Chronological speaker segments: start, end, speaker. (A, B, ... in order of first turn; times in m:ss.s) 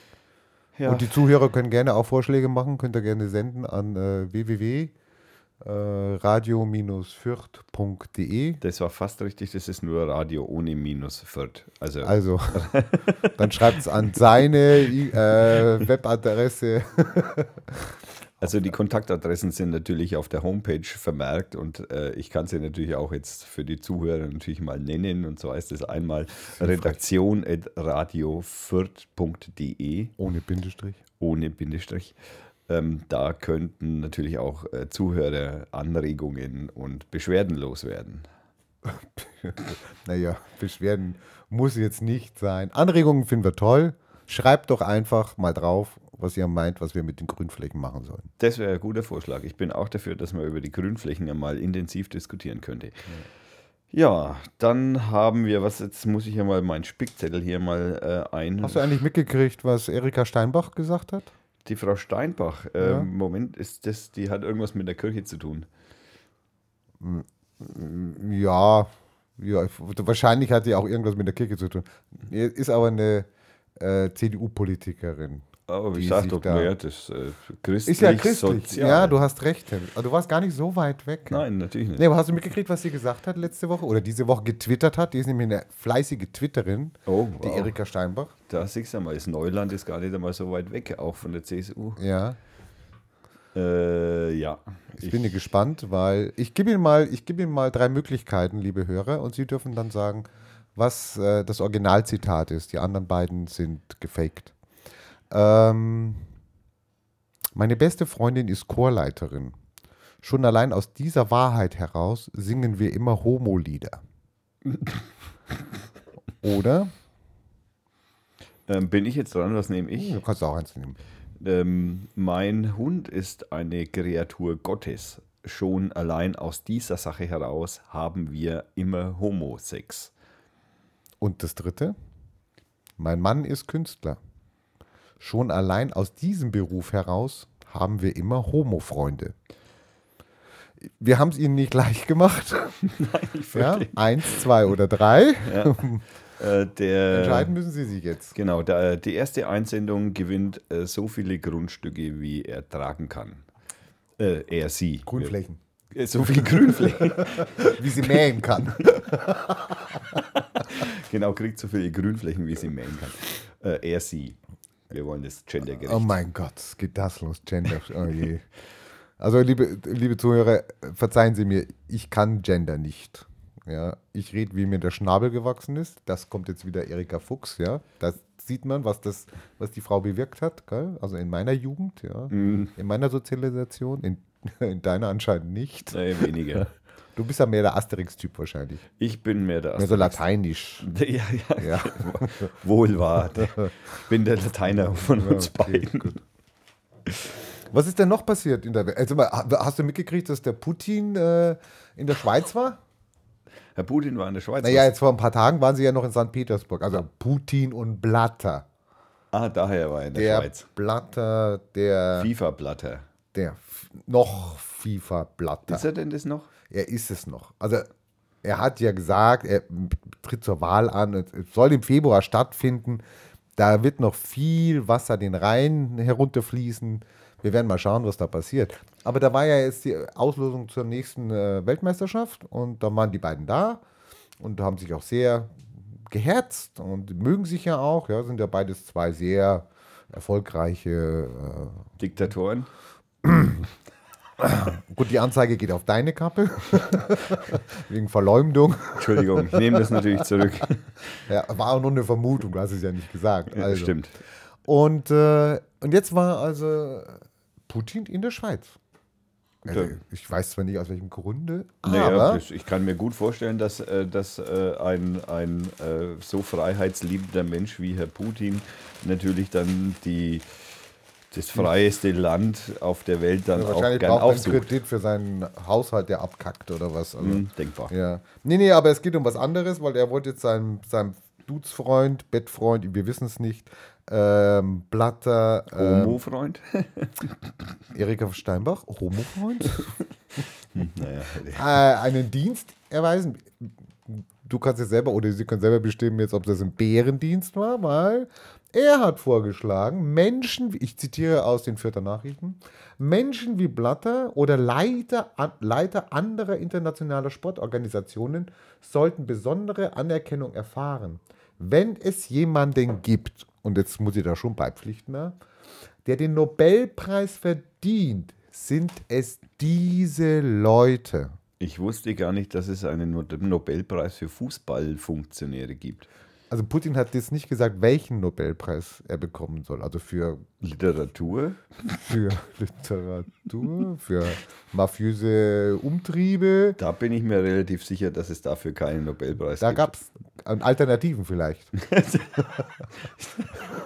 0:00.8-0:01.2 A
0:00.8-0:04.9 B
0:05.6-0:08.6 B
0:08.6-0:13.8 A
0:12.0-0:12.8 B
0:13.4-0:18.5 B
0:18.4-0:30.1 A
0:26.5-0:27.0 B
0:30.2-0:31.0 B
0:31.2-0:32.2 A
0:32.7-0:38.2 A
0:38.8-0:48.3 B
0:48.4-0:53.1 A
0:53.9-0:59.0 A
0:58.6-1:01.3 B
1:01.6-1:05.7 A
1:02.8-1:03.1 B
1:07.0-1:16.7 B
1:15.7-1:19.2 A
1:17.8-1:21.4 B
1:21.3-1:22.0 A
1:22.0-1:28.3 B
1:27.1-1:27.7 A
1:28.5-1:32.0 A
1:32.0-1:32.4 B
1:33.5-1:35.4 A
1:35.0-1:44.5 B
1:45.3-1:46.2 B
1:47.5-1:49.6 B
1:50.2-1:54.0 B
1:54.6-1:55.0 A
1:56.4-1:56.9 B
1:58.7-2:00.2 A
1:59.9-2:01.0 B
2:01.4-2:10.1 A
2:11.2-2:11.9 B
2:13.0-2:14.2 B
2:15.2-2:19.3 B
2:20.8-2:22.8 B
2:22.8-2:24.4 A
2:23.5-2:26.0 B
2:25.4-2:27.5 A
2:27.1-2:28.3 B
2:28.3-2:33.4 A
2:34.2-2:35.3 A
2:35.1-2:35.6 B
2:35.9-2:39.0 A
2:36.8-2:40.2 B
2:40.2-2:44.4 A
2:44.9-2:46.2 A
2:45.8-2:48.5 B
2:49.2-3:06.0 B
3:02.3-3:02.7 A
3:05.9-3:06.7 A
3:07.2-3:08.8 B
3:09.0-3:10.2 A
3:09.8-3:10.9 B
3:10.8-3:16.2 A
3:11.6-3:12.5 B
3:14.8-3:16.2 B
3:17.7-3:22.8 B
3:23.8-3:24.9 A
3:24.6-3:28.6 B
3:29.3-3:30.6 A
3:30.1-3:32.3 B
3:32.1-3:33.0 A
3:33.3-3:35.9 B
3:35.7-3:36.5 A
3:36.7-3:37.9 B
3:38.4-3:43.0 B
3:43.6-3:53.8 B
3:54.4-4:01.9 B
4:02.0-4:02.7 A
4:03.2-4:03.7 B
4:04.4-4:10.0 B
4:09.0-4:11.2 A
4:11.3-4:14.0 B
4:13.5-4:14.1 A
4:14.6-4:18.8 B
4:19.6-4:22.4 B
4:19.7-4:20.0 A
4:21.8-4:34.7 A
4:33.5-4:46.2 B
4:37.2-4:37.9 A
4:45.7-4:47.3 A
4:47.9-4:49.9 B
4:50.7-4:51.7 A
4:51.5-5:15.4 B
5:16.0-5:21.4 B
5:21.6-5:26.1 A
5:26.5-5:30.4 B
5:30.6-5:31.6 A
5:32.0-5:36.8 B
5:36.8-5:39.9 A
5:39.6-5:41.7 B
5:41.8-5:42.6 A
5:43.2-5:43.5 A